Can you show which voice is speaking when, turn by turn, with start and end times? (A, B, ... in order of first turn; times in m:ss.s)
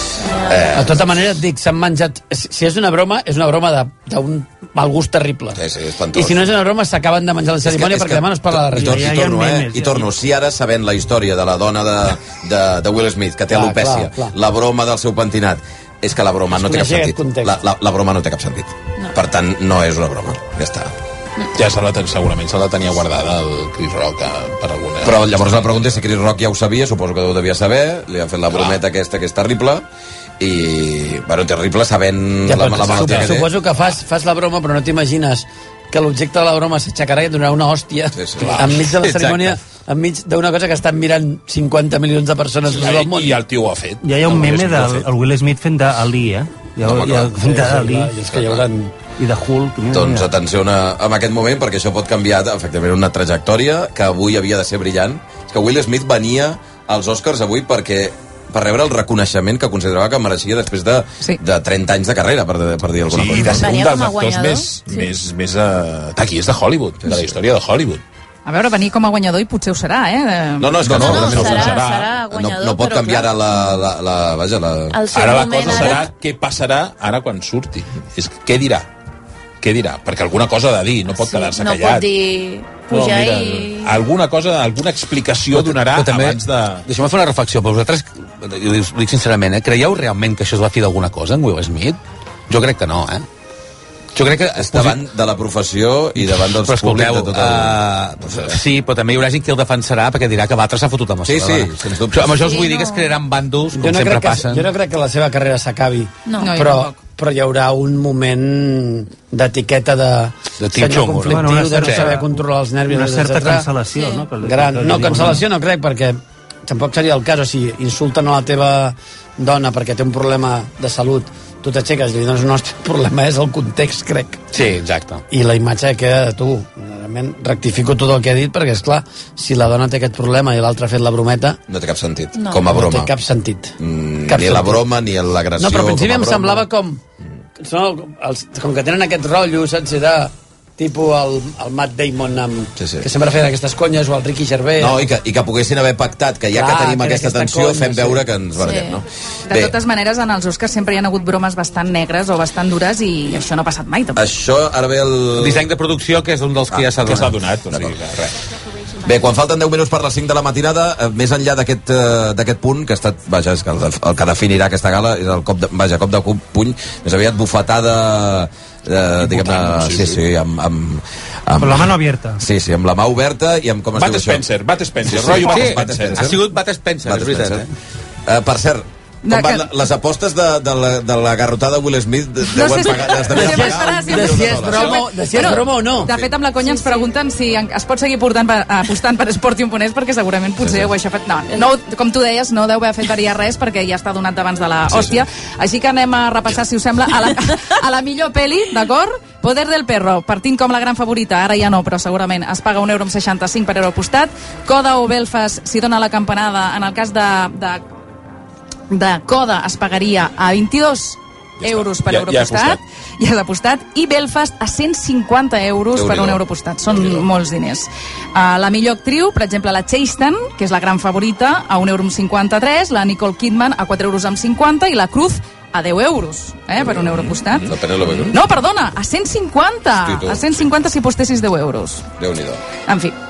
0:00.2-0:00.8 A
0:00.5-0:01.1 B
0:00.7-0:05.6 C
0:05.6-0:06.5 B
0:06.1-0:09.1 C
0:07.6-0:20.9 B
0:08.7-0:10.1 D
0:13.5-0:14.3 C
0:16.5-0:17.6 C
0:21.5-0:26.0 E
0:25.0-0:29.8 B
0:30.4-0:33.5 B
0:32.4-0:43.4 C
0:38.1-0:38.7 B
0:38.6-0:39.6 F
0:42.7-0:45.1 E
0:44.0-0:48.2 D
0:46.8-0:47.3 B
0:47.3-0:49.1 C
0:49.1-0:50.3 D
0:49.9-1:03.7 B
1:03.1-1:08.0 E
1:03.4-1:05.1 A
1:08.5-1:10.8 G
1:10.6-1:11.7 B
1:10.8-1:12.2 E
1:10.9-1:13.8 A
1:12.3-1:15.0 B
1:14.9-1:16.1 A
1:15.1-1:18.9 E
1:15.6-1:16.0 B
1:19.6-1:22.1 E
1:21.1-1:24.0 A
1:22.9-1:26.9 E
1:25.5-1:33.3 F
1:34.2-1:35.0 F
1:34.5-1:38.6 B
1:36.2-1:44.7 F
1:41.2-1:42.4 B
1:42.4-1:43.1 A
1:43.7-1:53.7 C
1:46.3-1:46.5 A
1:46.4-1:47.0 G
1:50.6-1:52.2 F
1:51.3-1:55.5 D
1:54.0-1:54.2 A
1:54.4-2:04.5 C
2:04.5-2:05.2 F
2:05.3-2:11.6 C
2:11.7-2:13.1 B
2:12.4-2:12.6 A
2:12.6-2:13.8 C
2:13.8-2:16.7 B
2:14.3-2:14.8 C
2:15.6-2:17.0 C
2:17.6-2:25.0 C
2:22.8-2:23.1 B
2:24.8-2:29.8 B
2:26.5-2:28.2 C
2:28.6-2:29.0 A
2:29.5-2:34.3 G
2:34.2-2:35.7 B
2:35.4-2:37.4 F
2:37.0-2:38.3 E
2:37.7-2:38.0 B
2:39.0-2:54.5 B
2:49.2-2:50.2 E
2:51.6-2:52.4 D
2:53.9-2:56.3 E
2:55.0-2:56.4 B
2:55.2-2:57.7 F
2:57.0-2:57.7 B
2:58.3-3:06.3 B
2:59.2-2:59.7 G
3:02.5-3:27.8 G
3:03.3-3:06.1 C
3:10.6-3:10.9 B
3:14.9-3:15.2 B
3:28.9-3:47.7 G
3:31.6-3:32.8 E
3:36.0-3:36.4 B
3:46.9-3:48.4 B
3:48.3-3:52.1 G
3:50.0-3:50.6 B
3:52.2-3:52.6 B
3:52.9-3:53.2 G